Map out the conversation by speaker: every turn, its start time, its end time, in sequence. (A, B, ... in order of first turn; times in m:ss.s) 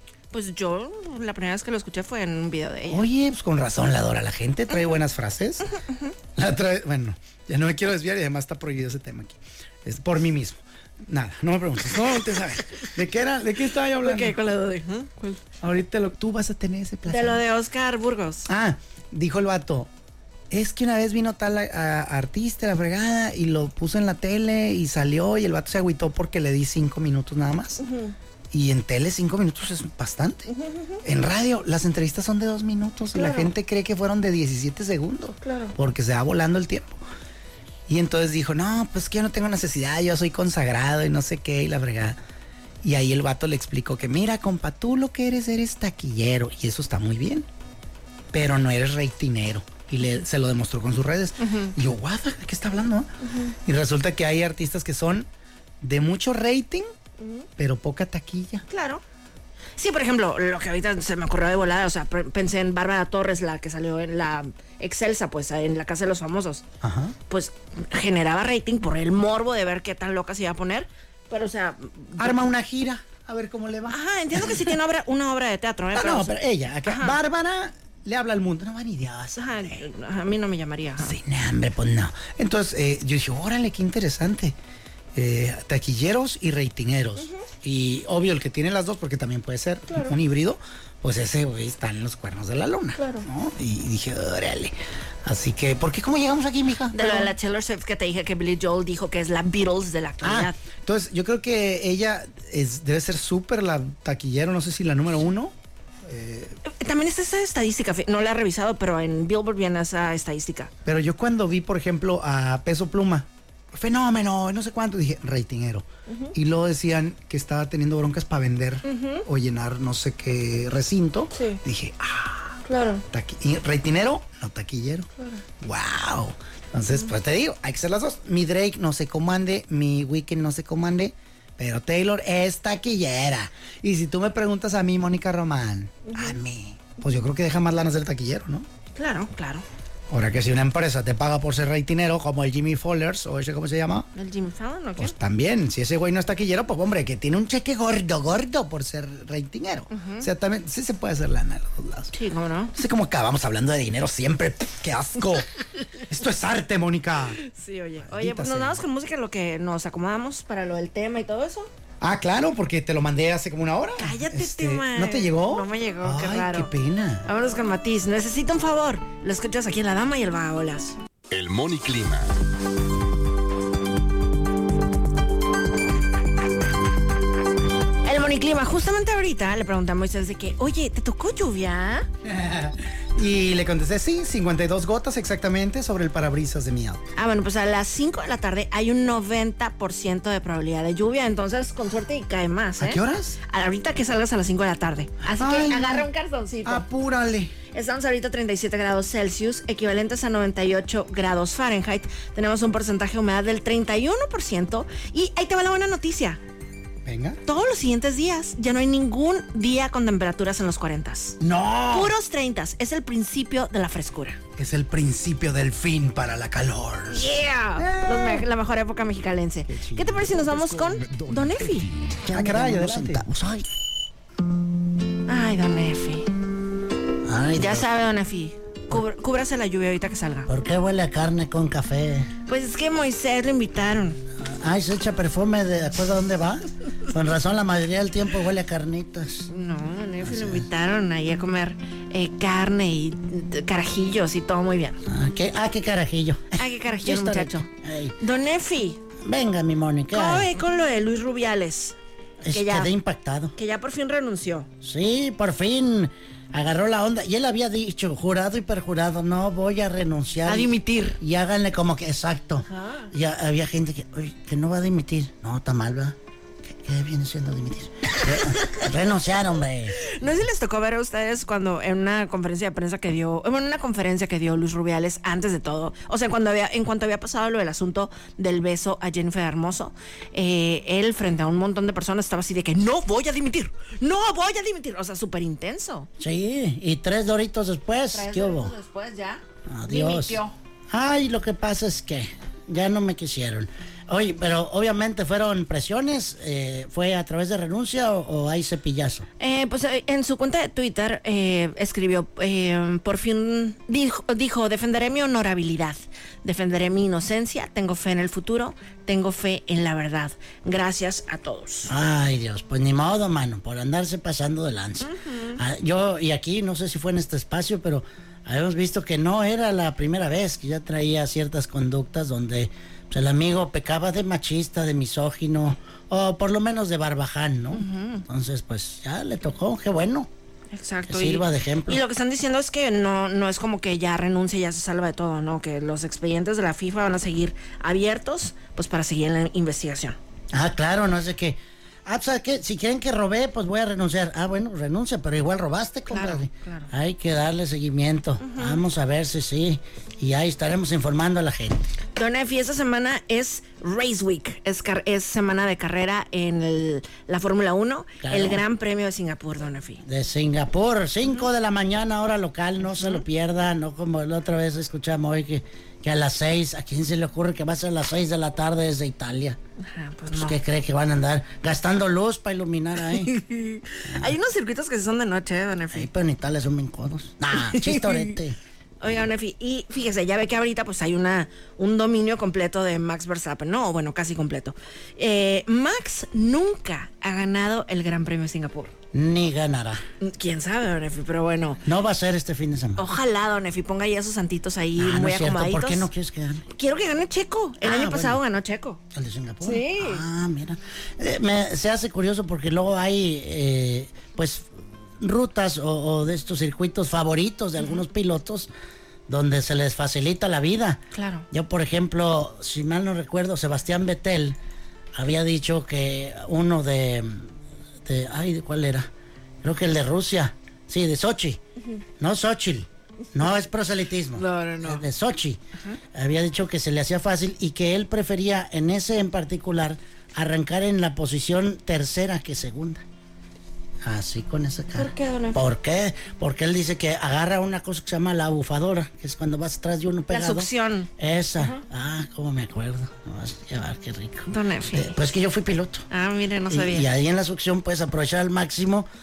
0:00.3-0:03.0 A
0:02.9-0:05.7 B
0:06.3-0:14.4 B
0:14.0-0:15.4 A
0:15.6-0:17.4 B
0:17.1-0:18.5 A
0:18.5-0:19.9 B
0:20.5-0:27.8 B
0:27.8-0:28.1 A
0:28.5-0:30.5 B
0:30.5-0:31.0 A
0:31.0-0:37.0 B
0:33.1-0:33.5 A
0:35.4-0:35.7 A
0:37.9-0:42.2 B
0:42.8-0:47.5 B
0:48.3-0:55.3 B
0:51.4-0:51.7 A
0:53.2-0:53.5 A
0:55.8-0:56.9 B
0:57.2-0:57.5 A
0:57.6-0:58.6 B
0:58.7-0:59.0 A
0:59.8-1:06.6 A
1:06.8-1:07.2 B
1:07.3-1:12.4 A
1:12.2-1:14.7 B
1:13.9-1:17.2 A
1:15.9-1:19.8 B
1:19.4-1:21.2 A
1:21.0-1:24.6 B
1:25.1-1:37.3 B
1:27.2-1:27.4 A
1:33.0-1:33.3 A
1:36.9-1:40.6 A
1:40.2-1:45.5 B
1:46.0-1:46.6 B
1:46.6-1:50.7 A
1:50.8-2:05.1 B
1:56.1-1:56.3 A
1:58.8-1:59.2 A
2:01.3-2:01.6 A
2:02.6-2:03.0 A
2:05.6-2:18.7 B
2:16.1-2:16.4 A
2:18.9-2:19.6 A
2:20.1-2:24.1 B
2:24.1-2:25.1 A
2:25.0-2:32.1 B
2:29.9-2:30.3 A
2:32.1-2:32.7 A
2:32.7-2:37.4 B
2:37.4-2:41.7 A
2:38.0-2:38.8 B
2:42.0-2:47.3 B
2:44.0-2:46.7 A
2:47.2-2:51.0 A
2:51.3-2:52.3 C
2:58.0-3:02.1 A
3:02.2-3:07.0 B
3:07.2-3:16.8 A
3:12.8-3:13.4 B
3:15.3-3:16.1 B
3:16.6-3:17.5 B
3:17.7-3:26.4 A
3:27.0-3:27.4 B
3:27.4-3:31.4 A
3:31.4-3:32.1 B
3:31.9-3:34.4 A
3:34.6-3:38.4 B
3:37.1-3:41.9 A
3:39.7-3:40.6 B
3:40.4-3:42.1 C
3:42.2-3:43.6 D
3:42.3-3:43.3 B
3:45.3-3:46.3 A
3:47.2-3:47.9 D
3:47.6-3:50.5 A
3:50.5-3:52.3 D
3:52.5-3:54.2 A
3:54.4-3:59.5 D
3:59.5-4:05.0 A
4:00.2-4:00.6 D
4:05.0-4:08.2 D
4:06.5-4:07.7 A
4:08.2-4:09.0 A
4:09.2-4:10.5 D
4:10.1-4:12.0 A
4:12.4-4:13.5 D
4:12.5-4:12.9 A
4:13.5-4:14.7 A
4:14.8-4:30.1 D
4:20.4-4:21.2 A
4:22.7-4:23.1 A
4:28.4-4:28.8 A
4:30.0-4:46.1 A
4:46.2-4:48.7 D
4:48.1-4:50.5 A
4:49.7-4:59.3 D
4:59.4-5:11.9 A
5:11.9-5:30.3 D
5:15.0-5:15.6 A
5:27.7-5:28.2 A
5:30.7-5:40.2 A
5:31.1-5:32.0 D
5:40.5-5:51.8 D
5:46.1-5:46.9 A
5:48.4-5:48.8 A
5:52.2-6:00.0 A
5:58.2-5:58.6 D
6:00.0-6:09.6 D
6:03.0-6:03.2 A
6:09.8-6:10.6 A
6:10.3-6:13.3 D
6:13.0-6:16.1 A
6:15.9-6:18.6 D
6:17.6-6:18.3 A
6:19.0-6:28.9 A
6:29.1-6:30.0 D
6:30.2-6:31.8 A
6:31.8-6:33.0 D
6:33.0-6:36.1 A
6:35.0-6:36.6 D
6:36.7-6:39.0 A
6:37.8-6:38.4 D
6:39.1-6:48.7 D
6:39.6-6:40.2 A
6:49.3-6:54.6 D
6:51.1-6:51.5 A
6:55.1-6:57.5 D
6:58.0-6:59.1 D
6:59.6-7:01.6 D
7:02.2-7:05.6 D
7:04.4-7:05.0 A
7:06.1-7:13.0 D
7:14.0-7:26.0 D
7:15.0-7:15.6 A
7:20.3-7:21.8 A
7:24.5-7:25.2 A
7:26.1-7:27.1 A
7:26.7-7:29.1 D